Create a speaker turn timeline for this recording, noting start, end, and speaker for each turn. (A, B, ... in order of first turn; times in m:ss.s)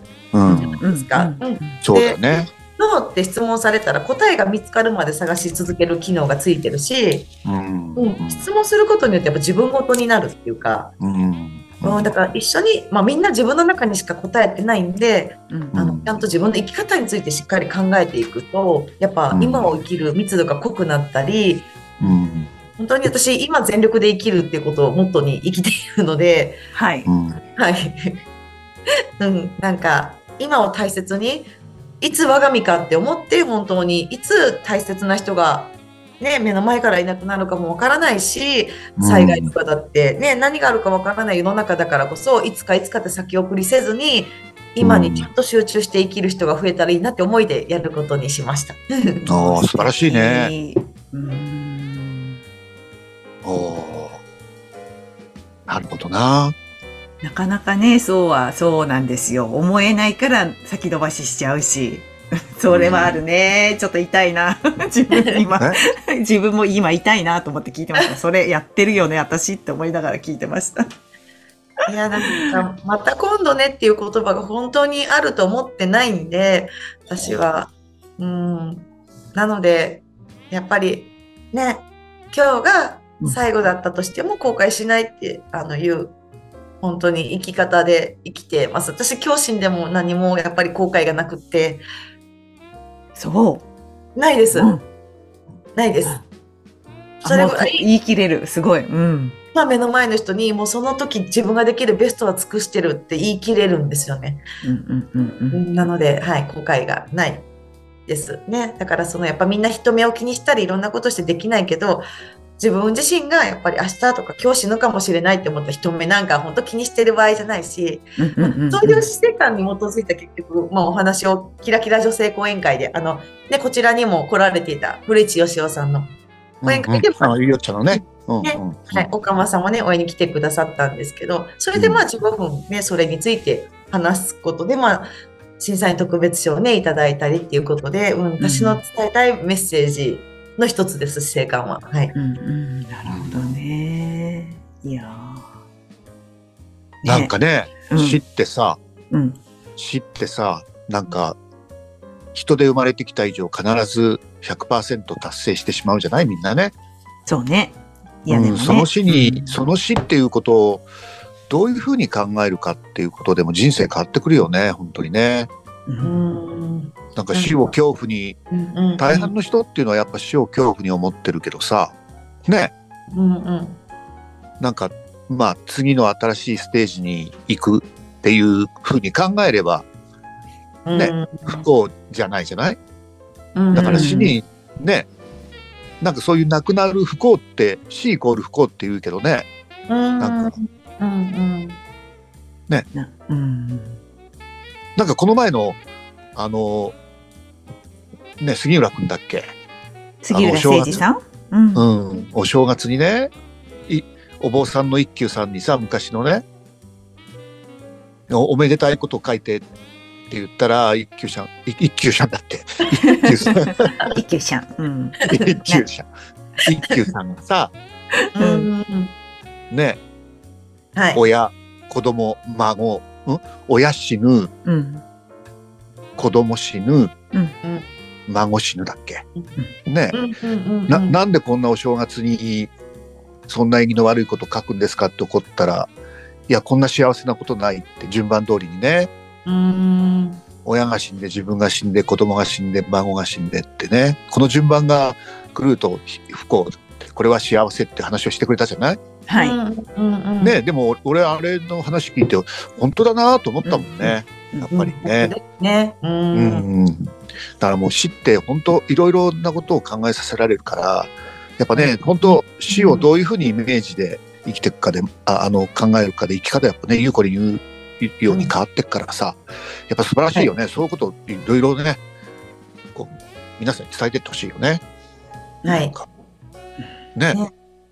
0:00.3-0:00.8 A
0:00.4-0:01.8 B
0:00.8-0:07.3 C
0:01.8-0:02.5 A
0:07.4-0:08.4 A
0:08.0-0:10.9 C
0:11.0-0:12.1 A
0:11.8-0:21.7 C
0:15.5-0:15.8 B
0:15.7-0:16.2 A
0:19.3-0:19.8 A
0:22.0-0:22.5 A
0:22.8-0:26.6 C
0:26.7-0:27.1 B
0:27.0-0:27.4 A
0:27.6-0:28.2 C
0:29.2-0:49.2 C
0:39.0-0:39.5 A
0:44.8-0:45.3 A
0:49.2-0:52.4 B
0:49.3-0:50.5 A
0:53.4-0:54.2 A
0:55.7-0:56.5 A
0:57.2-1:10.8 B
1:02.7-1:03.2 A
1:11.9-1:26.1 C
1:26.8-1:31.8 C
1:33.2-1:33.6 B
1:34.2-1:34.8 C
1:34.5-1:34.8 B
1:35.7-1:36.2 C
1:37.2-1:39.4 B
1:37.2-1:37.8 C
1:39.5-1:44.4 C
1:44.6-1:45.6 B
1:45.5-1:47.4 C
1:48.1-1:52.0 C
1:52.6-2:06.1 C
1:58.2-1:59.0 B
2:06.6-2:09.1 A
2:06.6-2:07.4 C
2:07.9-2:15.1 C
2:11.7-2:12.0 A
2:15.6-2:22.1 C
2:18.4-2:18.8 B
2:22.1-2:25.5 B
2:23.0-2:23.4 A
2:27.0-2:27.3 B
2:27.0-2:28.8 A
2:27.9-2:28.2 B
2:29.1-2:29.4 B
2:29.8-2:31.4 A
2:32.3-2:36.7 A
2:37.3-2:39.6 B
2:38.3-2:40.8 A
2:41.5-2:45.5 A
2:45.9-2:46.2 B
2:46.0-2:47.7 C
2:47.1-2:48.4 A
2:48.5-2:49.3 C
2:49.0-2:52.7 A
2:53.1-2:53.8 C
2:54.6-2:59.8 A
3:00.8-3:01.6 C
3:00.9-3:02.8 A
3:03.5-3:04.3 C
3:03.7-3:05.1 A
3:03.8-3:04.3 B
3:06.0-3:09.5 A
3:09.9-3:11.8 C
3:10.2-3:10.5 A
3:12.9-3:14.0 B
3:15.0-3:15.8 A
3:16.3-3:17.0 A
3:18.4-3:19.5 A
3:20.2-3:21.8 B
3:20.3-3:21.0 A
3:21.8-3:23.3 A
3:23.9-3:26.4 A
3:28.3-3:29.6 A
3:30.3-3:33.9 A
3:33.0-3:35.8 B
3:35.3-3:35.6 C
3:35.3-3:36.1 A
3:36.6-3:37.7 A
3:38.4-3:38.7 B
3:38.4-3:39.1 C
3:39.7-3:40.0 A
3:40.9-3:41.2 C
3:41.1-3:44.5 A
3:44.6-3:45.0 B
3:46.2-3:47.1 A
3:47.6-3:47.9 C
3:48.3-3:49.2 A
3:49.9-3:50.2 A
3:50.1-3:51.2 C
3:50.9-3:52.7 A
3:53.5-3:55.9 A
3:56.5-3:59.1 A
3:59.4-4:00.4 C
4:00.6-4:09.0 A
4:09.3-4:09.6 B
4:09.4-4:10.6 C
4:10.4-4:15.3 A
4:13.6-4:14.7 B
4:14.7-4:16.6 C
4:16.3-4:32.0 A
4:21.7-4:23.1 C
4:32.9-4:34.8 A
4:35.6-4:35.9 C
4:35.7-4:36.0 A